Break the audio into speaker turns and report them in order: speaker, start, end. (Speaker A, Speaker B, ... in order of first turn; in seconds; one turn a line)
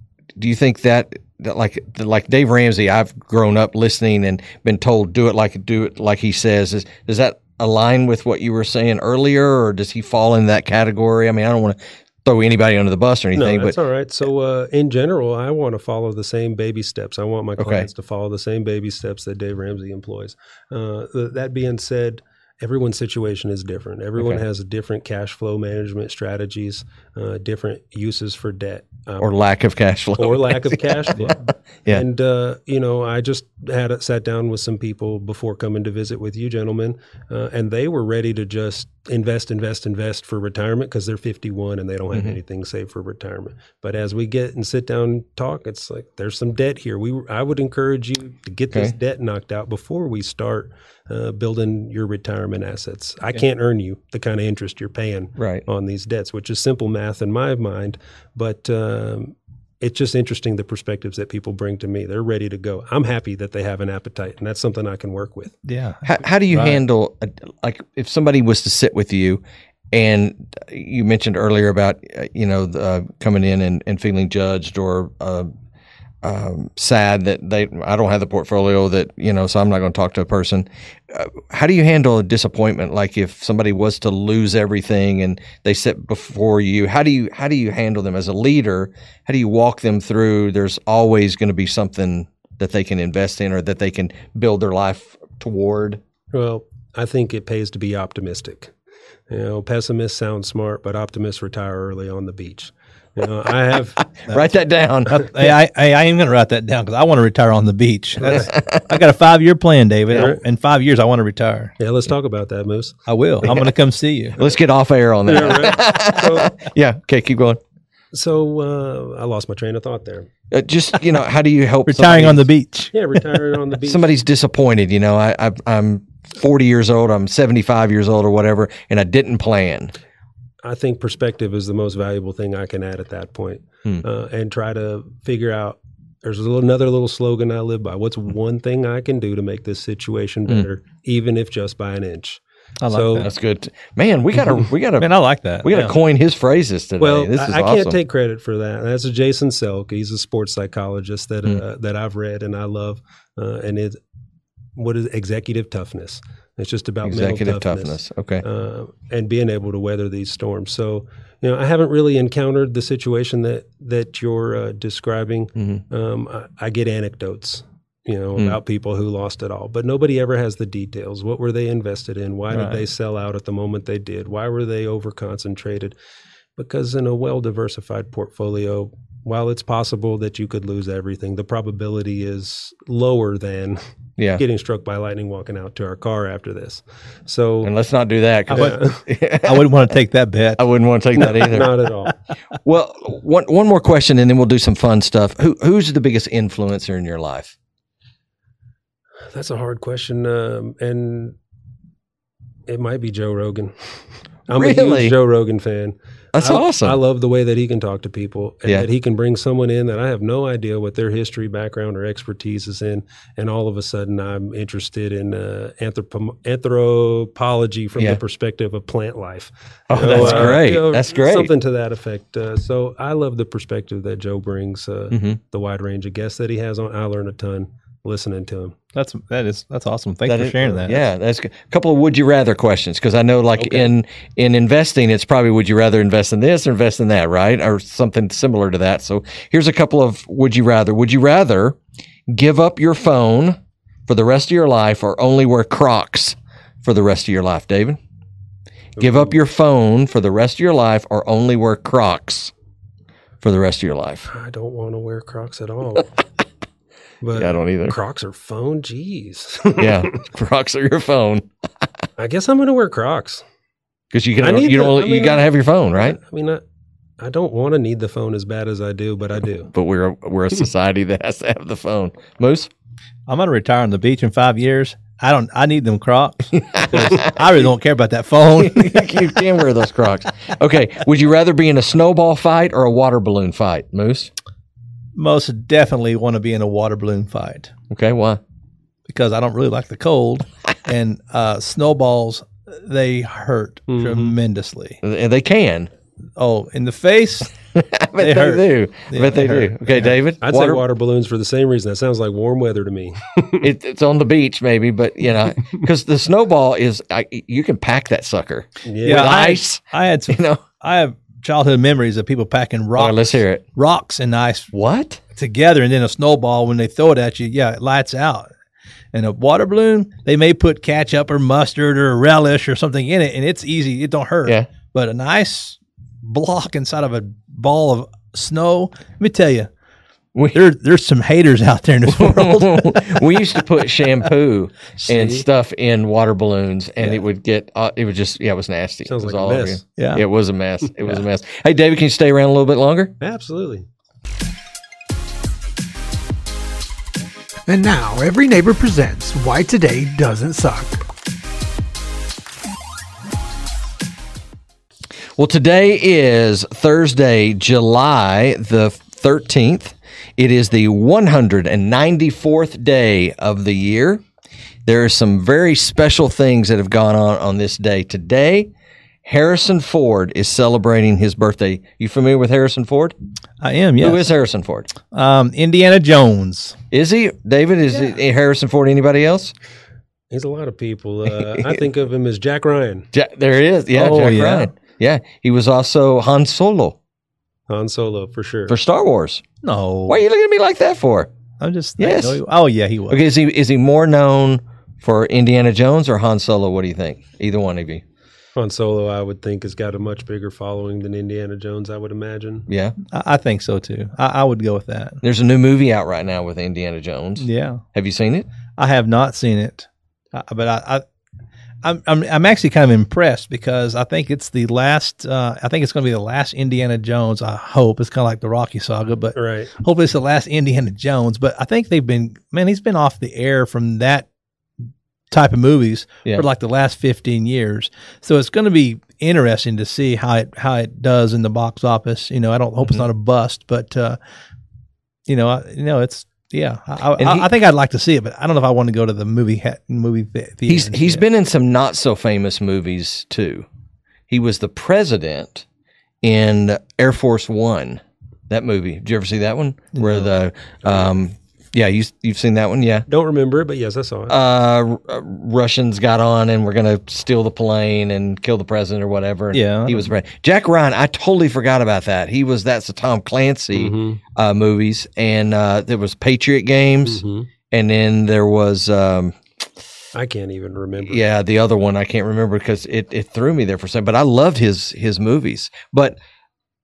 Speaker A: 0.3-13.8
Speaker B: 13.3-29.3
Speaker A: 17.6-17.9
Speaker A: 29.2-32.0
Speaker B: 30.2-65.5
Speaker A: 42.1-42.4
Speaker A: 55.4-55.6
Speaker C: 65.7-66.8
Speaker A: 66.0-75.5
Speaker A: 76.2-96.0
Speaker B: 96.3-98.7
Speaker B: 99.3-104.1
Speaker A: 104.2-105.3
Speaker C: 105.1-111.7
Speaker B: 108.2-108.5
Speaker A: 108.3-108.8
Speaker B: 110.1-110.4
Speaker B: 111.8-113.6
Speaker C: 113.1-114.4
Speaker A: 114.4-117.6
Speaker B: 115.2-116.6
Speaker B: 118.1-120.3
Speaker A: 120.5-122.5
Speaker C: 121.8-122.9
Speaker B: 122.9-124.1
Speaker A: 123.8-129.9
Speaker B: 130.6-143.3
Speaker C: 142.8-143.3
Speaker A: 143.2-148.0
Speaker C: 145.0-145.9
Speaker B: 147.0-154.0
Speaker B: 154.8-175.9
Speaker A: 157.0-158.4
Speaker A: 165.6-165.8
Speaker C: 172.5-172.8
Speaker B: 176.6-183.8
Speaker A: 184.2-184.4
Speaker B: 184.4-187.7
Speaker A: 187.6-189.8
Speaker B: 188.5-189.0
Speaker C: 188.5-188.8
Speaker C: 189.4-190.6
Speaker A: 190.6-191.8
Speaker B: 191.2-192.1
Speaker A: 192.6-197.5
Speaker B: 199.3-201.3
Speaker B: 202.7-203.7
Speaker B: 204.5-228.8
Speaker A: 204.5-205.1
Speaker A: 206.3-207.0
Speaker A: 219.9-221.5
Speaker C: 220.0-220.6
Speaker A: 225.1-225.4
Speaker C: 228.9-231.0
Speaker A: 230.2-241.8
Speaker B: 233.6-233.9
Speaker A: 242.3-248.0
Speaker B: 249.0-249.3
Speaker A: 249.0-252.5
Speaker A: 253.4-254.3
Speaker B: 254.3-256.1
Speaker B: 257.2-260.2
Speaker A: 257.3-258.0
Speaker A: 259.8-261.4
Speaker B: 262.2-263.4
Speaker A: 264.1-266.2
Speaker B: 264.4-266.6
Speaker B: 267.2-269.7
Speaker A: 269.7-272.7
Speaker C: 273.3-279.2
Speaker A: 276.6-277.3
Speaker A: 278.6-284.3
Speaker C: 285.1-287.7
Speaker A: 287.9-288.4
Speaker C: 289.1-295.0
Speaker B: 293.9-294.3
Speaker A: 295.0-295.9
Speaker C: 296.4-297.5
Speaker A: 297.7-300.8
Speaker C: 298.2-300.1
Speaker B: 300.4-303.7
Speaker A: 303.6-310.6
Speaker B: 308.8-309.4
Speaker C: 309.0-314.7
Speaker A: 313.0-313.6
Speaker A: 314.7-315.2
Speaker C: 315.3-318.5
Speaker C: 319.1-329.7
Speaker A: 330.3-330.6
Speaker C: 330.5-333.2
Speaker A: 332.1-343.1
Speaker B: 339.1-339.8
Speaker C: 340.0-340.2
Speaker B: 343.2-343.9
Speaker D: 347.7-351.0
Speaker A: 355.4-364.2
Speaker A: 364.9-368.7
Speaker A: 369.2-373.1
Speaker C: 373.6-374.3
Speaker A: 374.0-374.9
Speaker C: 375.1-376.8
Speaker A: 376.9-379.5
Speaker B: 380.3-383.1
Speaker A: 381.4-381.8
Speaker A: 383.1-387.0
Speaker C: 383.9-384.7
Speaker B: 387.7-388.8
Speaker A: 388.7-389.4
Speaker C: 389.6-390.2
Speaker A: 390.1-391.3
Speaker C: 391.6-393.2
Speaker A: 392.0-392.4
Speaker A: 393.1-398.0
Speaker B: 398.6-402.7
Speaker A: 402.7-402.9
Speaker C: 403.1-405.2
Speaker A: 405.2-408.5
Speaker C: 407.4-407.8
Speaker C: 408.8-411.0
Speaker C: 411.8-424.3
Speaker B: 419.3-419.7
Speaker C: 425.3-434.2
Speaker C: 435.3-441.2
Speaker A: 437.2-437.5
Speaker A: 440.7-443.6
Speaker A: 444.3-445.6
Speaker A: 446.2-453.1
Speaker C: 449.9-450.3
Speaker B: 453.1-454.4
Speaker A: 454.3-469.4
Speaker C: 459.5-460.1
Speaker B: 463.7-464.2
Speaker B: 467.0-467.5
Speaker B: 470.1-471.2
Speaker A: 471.1-476.2